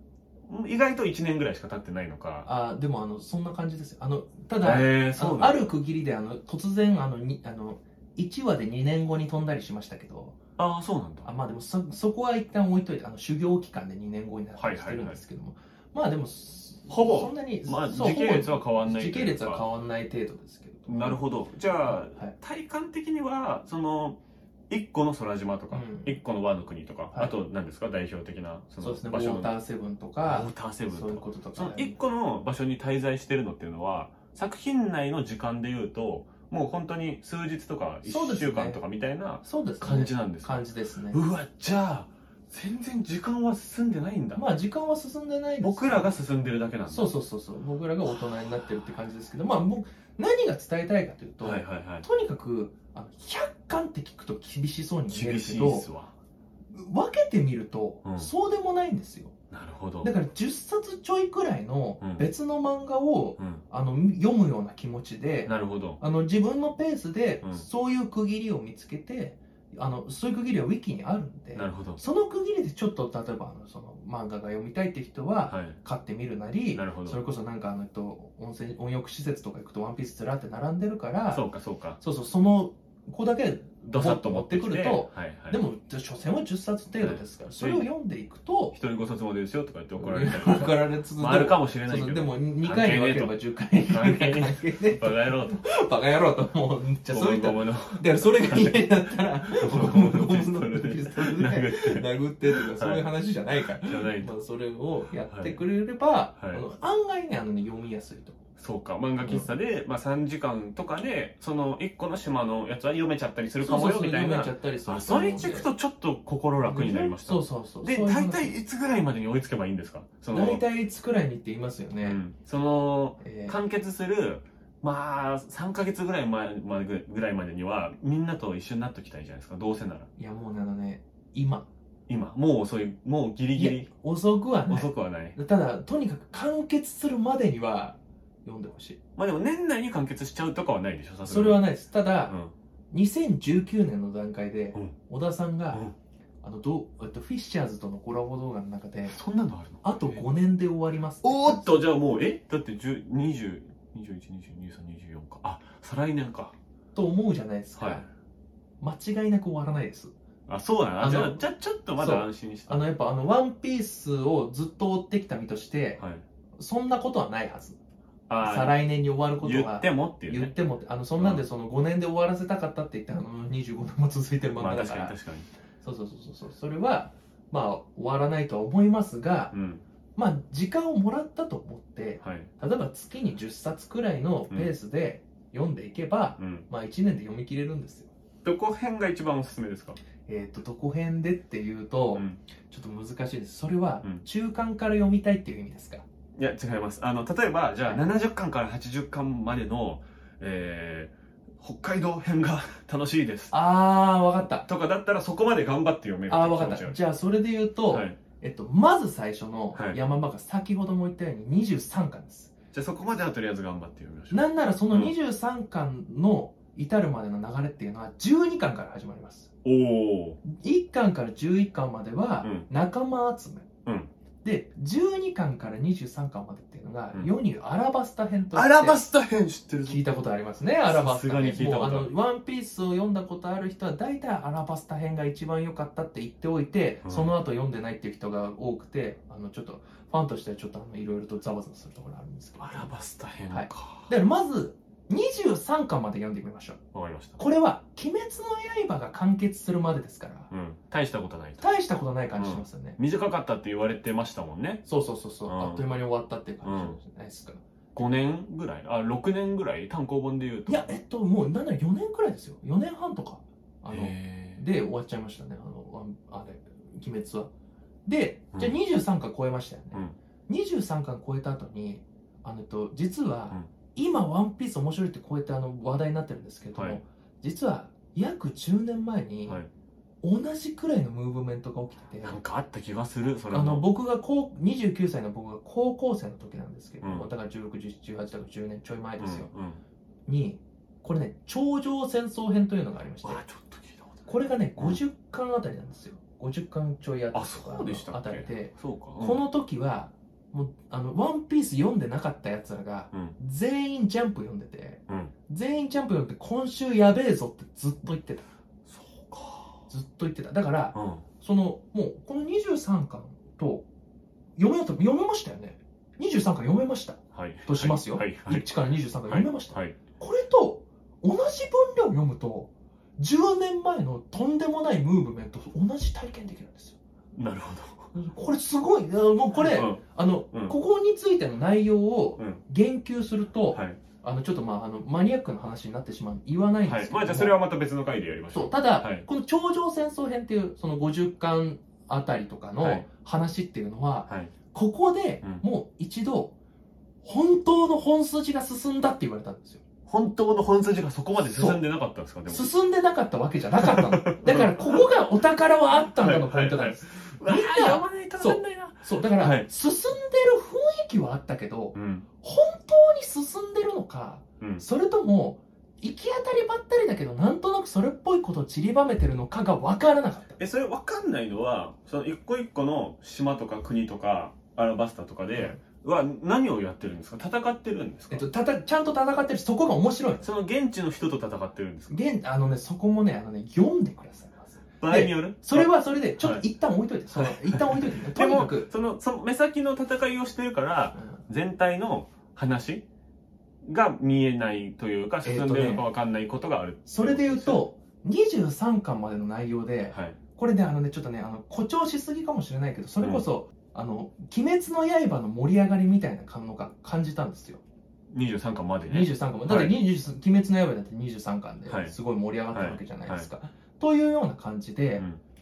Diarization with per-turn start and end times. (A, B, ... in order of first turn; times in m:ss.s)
0:00.4-0:02.5 A
0:02.4-0:10.4 B
0:04.6-0:05.7 A
0:10.6-0:11.3 A
0:11.2-0:21.2 B
0:14.6-0:15.2 A
0:16.9-0:19.6 A
0:20.9-0:29.5 A
0:21.8-0:22.3 B
0:25.7-0:26.2 B
0:28.8-0:31.9 B
0:30.2-0:44.4 A
0:38.0-0:38.8 B
0:39.4-0:41.2 B
0:44.3-0:46.1 B
0:45.6-0:47.1 A
0:46.9-0:55.9 B
0:51.4-0:52.0 A
0:55.1-0:56.1 A
0:56.7-0:59.3 B
0:58.0-0:58.3 A
0:59.5-1:00.1 A
1:00.0-1:21.4 B
1:02.0-1:02.3 A
1:05.4-1:06.0 A
1:11.5-1:12.0 A
1:15.5-1:15.8 A
1:16.7-1:17.2 A
1:21.3-1:22.0 A
1:22.0-1:28.7 B
1:23.9-1:25.6 A
1:27.0-1:27.9 A
1:28.7-1:35.6 A
1:30.0-1:48.4 B
1:37.1-1:38.9 A
1:39.4-1:43.1 A
1:43.6-1:44.3 A
1:45.3-1:45.6 A
1:46.4-1:46.6 A
1:48.6-2:00.6 A
1:49.2-1:49.5 B
1:53.6-1:55.7 B
1:56.6-1:58.6 B
2:00.3-2:02.2 B
2:02.0-2:10.1 A
2:03.2-2:03.6 B
2:10.2-2:11.7 B
2:12.1-2:13.9 A
2:13.5-2:19.0 B
2:14.7-2:15.4 A
2:19.2-2:21.6 A
2:21.2-2:22.3 B
2:22.3-2:22.5 A
2:22.9-2:25.8 B
2:26.4-2:29.2 B
2:29.1-2:30.2 A
2:29.8-2:31.8 B
2:31.2-2:36.6 A
2:36.9-2:38.1 B
2:37.8-2:38.0 A
2:38.8-2:40.1 B
2:40.5-2:42.9 A
2:41.0-2:41.4 B
2:42.0-2:46.0 B
2:46.0-2:46.2 A
2:46.6-2:47.8 B
2:48.3-2:48.8 A
2:48.4-2:55.2 B
2:49.4-2:50.5 A
2:51.2-2:51.4 A
2:54.6-2:55.5 A
2:55.8-2:59.5 B
2:59.5-2:59.8 A
3:00.2-3:08.1 B
3:02.2-3:02.5 A
3:06.4-3:06.6 A
3:08.4-3:10.0 A
3:10.2-3:16.0 B
3:12.1-3:12.4 A
3:16.3-3:23.5 A
3:23.5-3:24.6 B
3:24.6-3:27.0 A
3:26.3-3:32.5 B
3:27.9-3:28.2 A
3:29.7-3:30.0 A
3:32.7-3:35.1 A
3:34.3-3:39.5 B
3:39.6-3:40.4 A
3:40.4-3:43.7 B
3:43.8-3:44.1 A
3:44.4-3:49.0 B
3:48.5-3:50.0 A
3:49.8-4:02.9 B
3:50.8-3:52.1 A
3:57.0-3:57.3 A
4:02.6-4:04.1 A
4:03.5-4:06.8 B
4:06.9-4:07.4 A
4:07.4-4:10.5 B
4:10.5-4:11.7 A
4:11.6-4:13.0 B
4:12.4-4:14.8 A
4:14.8-4:17.6 B
4:15.4-4:15.9 A
4:16.6-4:17.0 A
4:17.9-4:20.9 A
4:20.7-4:27.5 B
4:23.9-4:24.6 A
4:28.0-4:39.6 B
4:40.2-4:42.4 B
4:42.2-4:43.9 A
4:43.5-4:49.5 B
4:47.0-4:47.3 A
4:49.2-4:49.8 A
4:50.3-4:53.4 B
4:53.2-4:54.2 A
4:54.3-5:08.4 B
4:57.3-4:59.4 A
5:08.9-5:09.8 A
5:09.9-5:13.8 B
5:10.9-5:11.2 A
5:14.6-5:27.0 B
5:17.3-5:18.7 A
5:19.3-5:20.0 A
5:27.3-5:28.1 A
5:28.1-5:37.6 B
5:29.5-5:30.7 A
5:33.7-5:34.0 A
5:36.8-5:39.2 A
5:38.5-5:46.5 B
5:42.8-5:43.1 A
5:44.3-5:44.5 A
5:47.2-5:49.8 B
5:50.1-5:52.7 A
5:51.5-5:51.8 B
5:52.5-6:10.6 B
5:53.8-5:55.1 A
5:56.1-5:59.7 A
6:01.9-6:02.2 A
6:10.6-6:18.4 A
6:18.3-6:20.5 B
6:20.4-6:22.2 A
6:22.1-6:28.9 B
6:25.0-6:26.6 A
6:27.3-6:33.0 A
6:33.8-6:37.8 A
6:35.4-6:36.0 B
6:37.0-6:47.8 B
6:40.1-6:40.4 A
6:48.3-6:50.0 A
6:49.1-6:55.2 B
6:51.9-6:52.2 A
6:52.7-6:53.5 A
6:55.2-6:55.4 A